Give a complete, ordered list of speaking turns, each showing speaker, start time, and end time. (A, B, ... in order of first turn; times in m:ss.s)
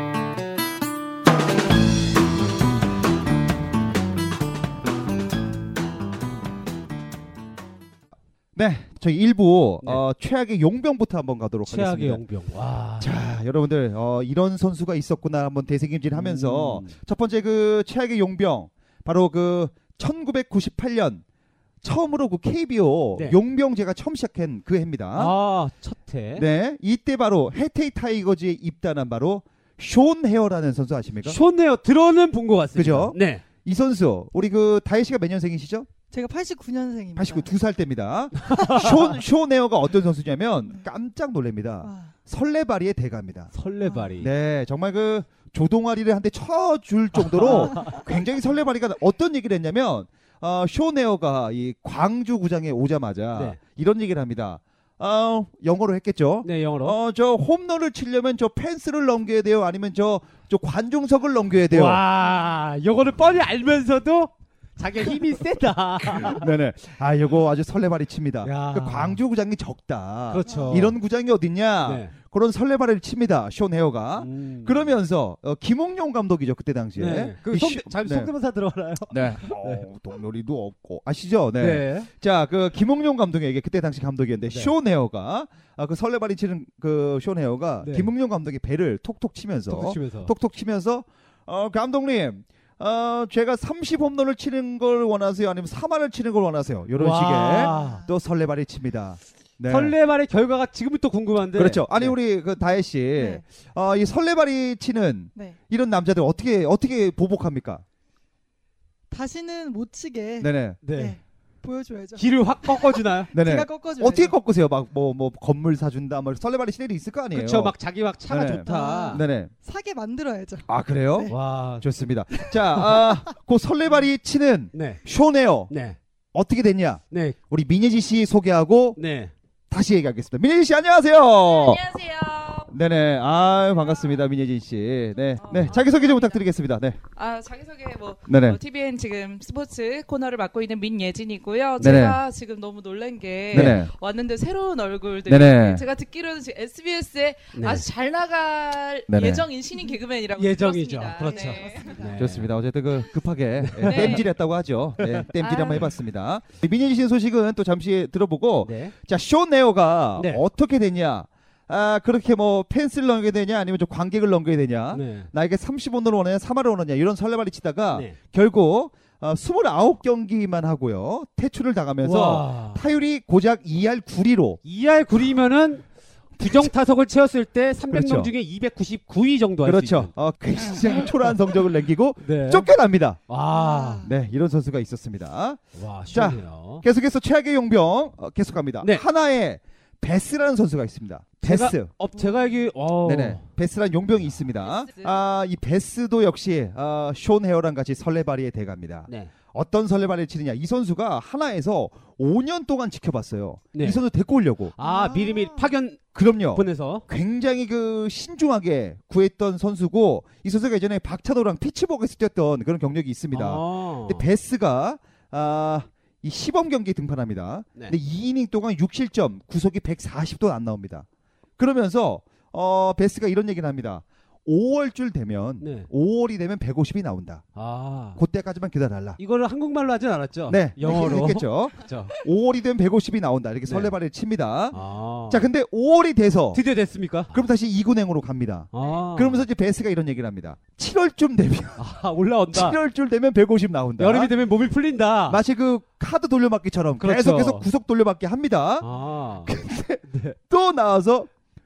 0:08.6-0:12.2 A
0:11.7-0:13.1 B
0:13.0-0:21.2 A
0:16.1-0:17.0 B
0:21.8-0:25.3 A
0:25.2-0:26.5 B
0:26.4-0:31.4 A
0:31.2-0:33.4 B
0:32.8-0:35.9 A
0:36.1-0:37.5 C
0:37.2-0:43.5 A
0:38.6-0:39.2 C
0:41.8-0:42.1 C
0:43.5-0:44.3 B
0:43.9-0:44.1 C
0:44.2-1:02.0 A
0:47.2-0:48.0 B
0:47.7-0:48.0 C
0:56.4-0:57.0 B
1:01.7-1:06.5 B
1:06.2-1:18.3 A
1:08.4-1:09.2 B
1:10.3-1:11.0 B
1:10.5-1:10.8 C
1:11.8-1:12.1 B
1:14.2-1:14.9 B
1:17.0-1:19.9 B
1:19.1-1:40.0 A
1:21.6-1:22.1 B
1:24.5-1:24.7 B
1:27.8-1:28.1 B
1:29.7-1:30.3 B
1:37.0-1:38.0 B
1:37.5-1:38.1 C
1:39.7-1:42.2 B
1:41.6-1:47.8 A
1:43.2-1:43.4 C
1:49.1-1:54.3 C
1:50.4-1:50.8 A
1:50.8-1:51.2 B
1:52.2-1:53.3 B
1:53.3-1:57.8 A
1:57.3-1:59.2 B
1:58.3-1:59.5 A
1:58.6-2:01.4 C
2:00.7-2:05.7 A
2:01.3-2:01.9 B
2:02.4-2:03.1 C
2:04.7-2:05.0 B
2:05.7-2:06.0 B
2:06.3-2:09.0 A
2:07.1-2:07.4 B
2:09.0-2:09.3 B
2:09.7-2:11.8 A
2:11.3-2:12.7 D
2:12.7-2:17.0 A
2:13.8-2:14.2 D
2:15.4-2:16.4 D
2:17.2-2:32.0 D
2:18.3-2:18.6 A
2:21.8-2:22.0 B
2:21.8-2:22.2 A
2:23.5-2:23.9 A
2:23.5-2:23.8 B
2:25.3-2:25.8 A
2:27.6-2:27.8 B
2:29.1-2:29.5 A
2:30.4-2:32.5 B
2:31.3-2:32.2 C
2:32.2-2:54.6 A
2:33.6-2:34.2 B
2:33.8-2:34.3 D
2:35.0-2:35.3 B
2:35.4-2:35.9 D
2:38.6-2:38.9 B
2:40.2-2:40.4 B
2:44.9-2:45.3 B
2:47.9-2:48.2 B
2:52.0-2:52.8 B
2:54.6-2:55.8 B
2:56.4-3:00.1 B
2:57.9-2:58.3 A
2:59.6-3:03.2 A
3:02.2-3:02.7 B
3:03.3-3:04.1 B
3:03.5-3:04.1 C
3:04.0-3:11.9 A
3:05.8-3:06.8 B
3:11.4-3:13.5 B
3:13.0-3:24.7 A
3:14.6-3:15.2 D
3:19.1-3:19.3 B
3:23.7-3:24.0 B
3:24.8-3:25.7 C
3:24.8-3:26.0 B
3:26.1-3:41.1 A
3:26.5-3:27.0 B
3:33.3-3:34.3 B
3:41.6-3:47.5 A
3:45.6-3:45.9 B
3:47.6-3:48.2 B
3:48.2-3:49.2 A
3:49.2-3:52.1 B
3:50.5-3:54.8 A
3:53.7-3:53.9 B
3:54.7-3:55.5 B
3:55.3-3:56.6 A
3:56.5-3:57.4 B
3:57.3-4:01.9 A
3:58.7-3:59.4 B
4:01.8-4:02.8 B
4:02.5-4:04.3 A
4:04.0-4:05.4 B
4:05.3-4:08.9 A
4:07.0-4:07.7 B
4:08.8-4:09.5 B
4:09.4-4:11.3 A
4:10.1-4:10.4 B